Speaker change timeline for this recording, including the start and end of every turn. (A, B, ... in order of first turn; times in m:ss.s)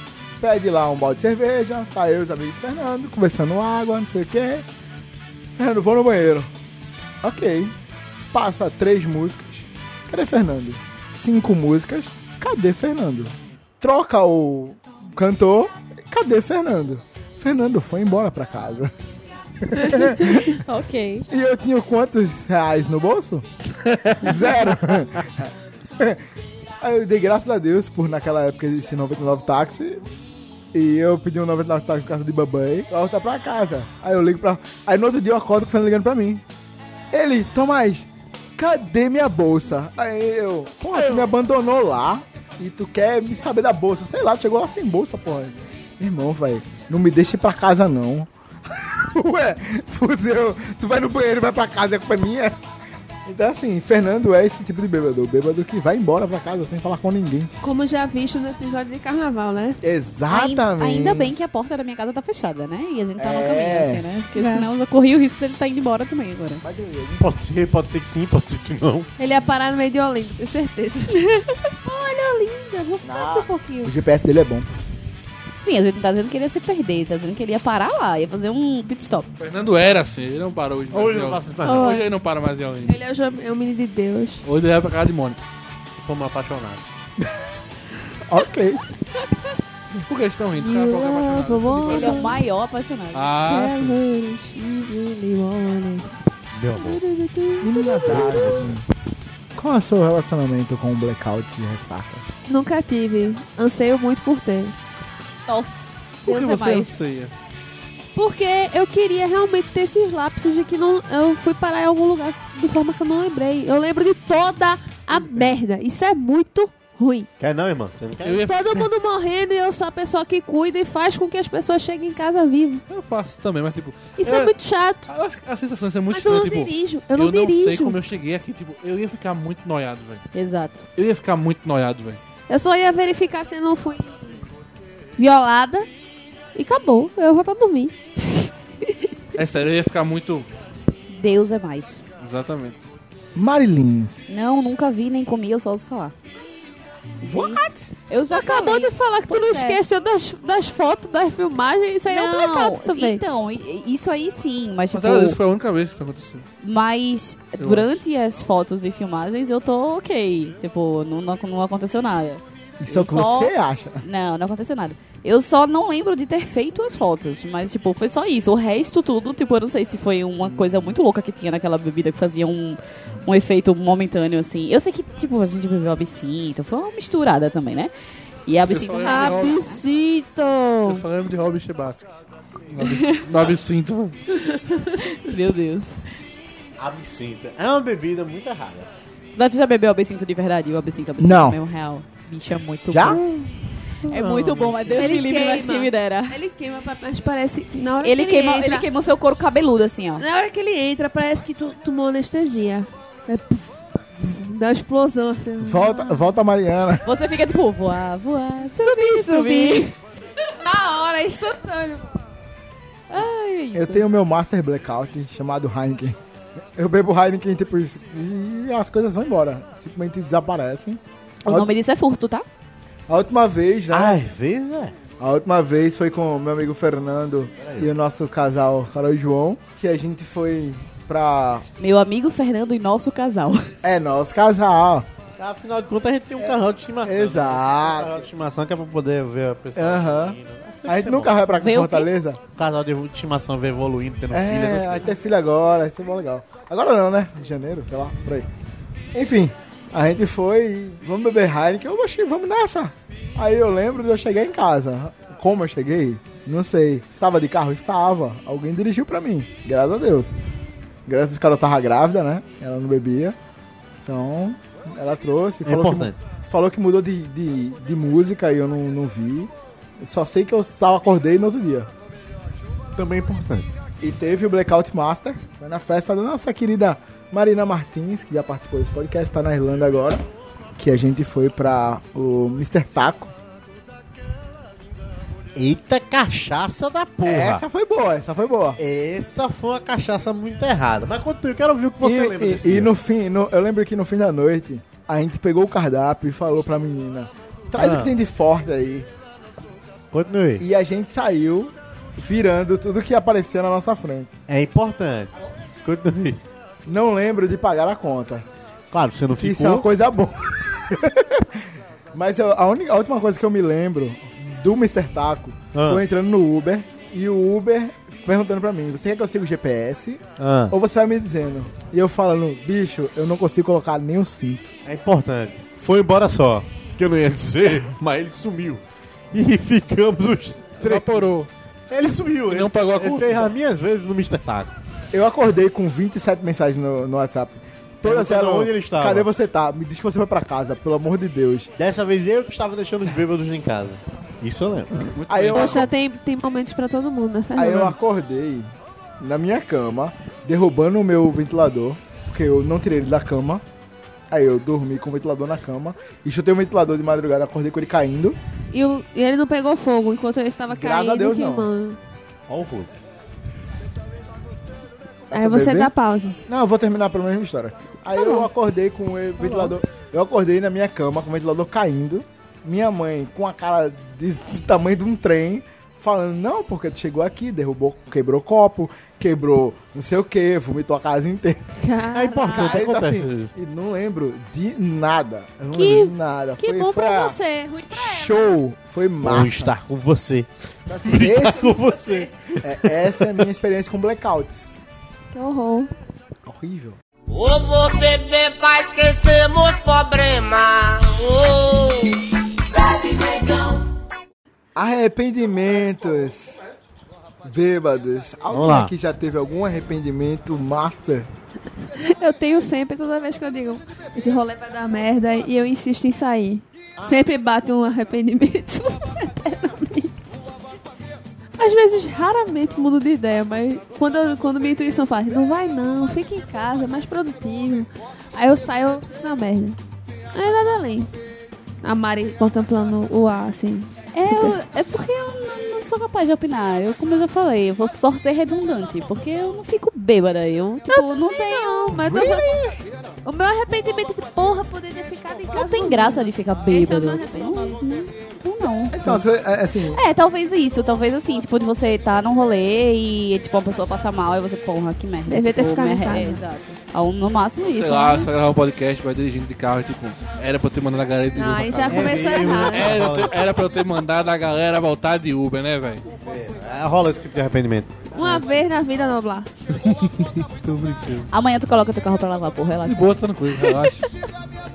0:00.4-0:04.6 A
0:05.6-0:06.5 A
0:07.2-0:07.7 A
0:08.3-0:18.9 A
0:19.6-0:20.6 A
0:20.5-0:21.2 B
0:21.3-0:23.4 A
0:23.9-0:24.2 C
0:24.2-0:26.2 A
0:26.8-0:30.0 A
0:30.7-0:36.4 A
0:37.1-0:52.6 A
0:53.2-0:57.5 A
0:57.6-0:59.8 D
0:59.8-1:01.3 A
1:00.3-1:06.6 B
1:03.2-1:04.0 A
1:04.3-1:04.7 D
1:06.6-1:07.2 A
1:07.2-1:09.1 C
1:09.2-1:13.9 D
1:13.0-1:14.7 A
1:15.6-1:19.3 B
1:19.4-1:23.0 E
1:20.9-1:22.0 C
1:21.6-1:22.1 D
1:22.8-1:24.4 D
1:24.4-1:25.4 E
1:26.0-1:26.8 C
1:28.2-1:28.8 A
1:30.1-1:32.4 E
1:30.6-1:32.4 D
1:31.9-1:33.3 B
1:33.1-1:34.0 E
1:33.4-1:36.1 D
1:36.5-1:37.0 C
1:36.7-1:38.6 D
1:37.6-1:38.8 A
1:38.1-1:38.8 C
1:39.6-1:42.3 A
1:42.5-1:44.7 D
1:45.5-1:46.9 B
1:46.2-1:47.3 E
1:48.1-1:57.3 D
1:57.4-1:58.5 C
1:58.2-1:58.8 E
1:58.4-2:02.8 D
2:02.9-2:04.5 E
2:04.2-2:05.1 D
2:05.1-2:10.2 E
2:06.1-2:08.0 D
2:10.3-2:10.9 B
2:11.0-2:12.2 E
2:12.5-2:14.4 D
2:15.2-2:15.9 D
2:16.6-2:19.1 D
2:19.3-2:20.5 E
2:21.1-2:22.0 B
2:22.2-2:22.8 E
2:23.3-2:24.3 A
2:24.3-2:26.1 B
2:27.2-2:27.9 A
2:27.2-2:29.8 B
2:28.3-2:33.2 D
2:32.1-2:35.4 B
2:34.9-2:36.5 E
2:36.6-2:57.9 B
2:37.6-2:37.9 E
2:42.8-2:44.0 A
2:58.5-2:59.8 B
2:58.7-2:59.6 E
2:59.0-3:01.0 D
3:00.9-3:02.1 E
3:02.7-3:04.2 E
3:02.8-3:03.2 B
3:04.3-3:05.0 D
3:05.0-3:06.1 B
3:06.8-3:08.9 C
3:09.4-3:13.3 B
3:11.2-3:11.6 A
3:12.9-3:13.2 A
3:14.0-3:16.4 B
3:14.1-3:15.2 C
3:14.9-3:18.9 D
3:18.0-3:20.2 B
3:20.2-3:26.3 D
3:25.6-3:27.0 A
3:27.0-3:29.9 B
3:28.8-3:29.9 D
3:30.6-3:32.2 D
3:33.1-3:34.0 B
3:33.7-3:36.2 A
3:36.8-3:41.7 A
3:41.4-3:42.4 B
3:43.1-3:44.2 A
3:43.9-3:44.9 C
3:45.2-3:51.6 A
3:47.6-3:47.9 C
3:51.8-3:53.7 B
3:53.8-3:55.1 A
3:55.4-4:01.4 C
3:56.4-3:58.2 A
3:59.7-4:02.4 A
4:01.6-4:02.1 B
4:02.5-4:05.1 C
4:04.3-4:08.5 A
4:09.1-4:20.4 A
4:21.1-4:23.4 A
4:24.0-4:31.9 A
4:25.6-4:26.2 C
4:32.9-4:33.7 C
4:34.0-4:40.2 A
4:40.8-4:43.3 A
4:45.6-4:47.6 C
4:47.2-4:48.8 A
4:48.8-4:52.9 C
4:52.0-4:59.1 A
4:57.8-4:58.1 C
5:00.1-5:00.6 C
5:00.6-5:04.3 A
5:04.5-5:06.4 C
5:06.9-5:08.4 A
5:08.9-5:09.9 C
5:09.4-5:24.7 A
5:15.7-5:16.0 C
5:20.4-5:20.7 C
5:24.8-5:28.8 C
5:29.3-5:31.3 C
5:30.8-5:31.5 E
5:31.9-5:34.7 C
5:32.5-5:33.5 E
5:35.1-5:41.7 A
5:38.0-5:39.3 C
5:41.8-5:45.1 C
5:45.1-5:45.9 E
5:45.3-5:45.9 A
5:45.5-5:47.9 D
5:47.6-5:48.7 A
5:49.2-5:53.6 A
5:54.3-5:58.4 A
5:58.7-6:02.0 D
6:00.7-6:01.7 A
6:02.5-6:02.9 C
6:05.3-6:05.9 A
6:05.3-6:06.4 D
6:06.5-6:21.6 A
6:08.1-6:08.5 D
6:09.4-6:09.7 C
6:21.8-6:22.9 D
6:22.1-6:23.5 C
6:22.4-6:27.4 A
6:25.7-6:28.4 D
6:27.9-6:29.7 A
6:29.2-6:30.5 C
6:30.9-6:31.9 A
6:31.0-6:33.4 C
6:32.6-6:34.8 A
6:35.3-6:35.9 D
6:36.4-6:37.0 A
6:37.3-6:42.2 F
6:44.7-6:46.6 A
6:47.4-6:51.3 A
6:48.5-6:48.9 C
6:52.0-7:00.3 D
7:01.6-7:09.8 D
7:10.3-7:11.1 D
7:11.8-7:14.6 D
7:14.1-7:22.4 B
7:20.9-7:22.7 D
7:23.2-7:27.8 D
7:25.5-7:29.2 B
7:28.9-7:30.0 A
7:29.9-7:38.4 B
7:35.3-7:36.4 D
7:37.6-7:46.0 E
7:41.3-7:43.0 D
7:41.9-7:43.4 C
7:46.2-7:48.4 C
7:48.1-7:49.5 D
7:50.5-7:51.3 E
7:51.3-7:53.8 B
7:52.9-7:54.1 E